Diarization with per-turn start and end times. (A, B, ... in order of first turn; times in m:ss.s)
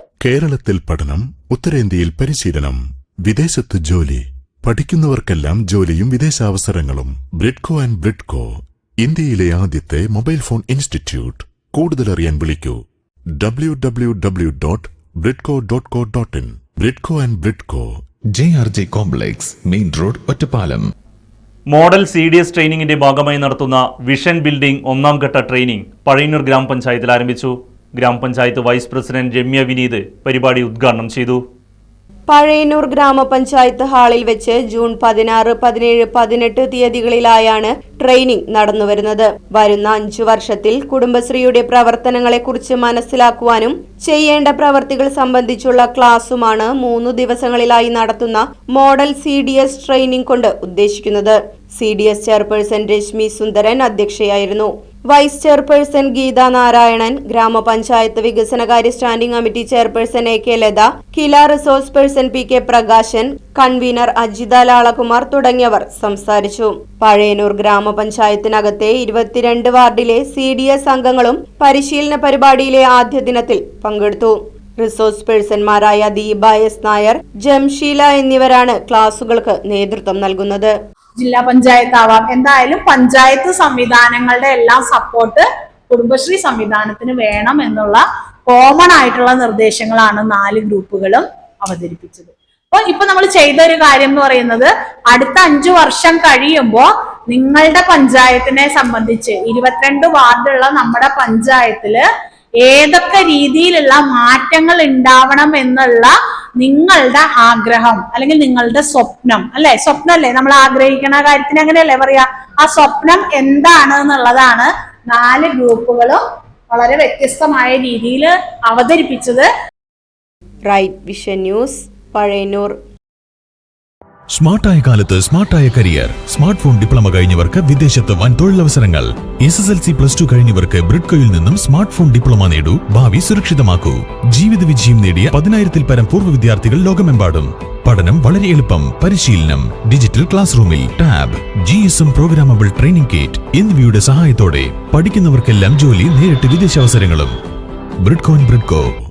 0:00.2-0:08.5 A
0:09.0-0:12.8 A
0:13.4-0:17.9 A
0:18.3-0:20.9 B
0:21.7-0:31.4 C
0:32.3-1:20.8 D
1:21.2-1:42.1 E
1:42.6-1:59.5 E
2:00.7-2:02.8 D
2:04.3-2:27.3 B
2:28.0-2:28.9 B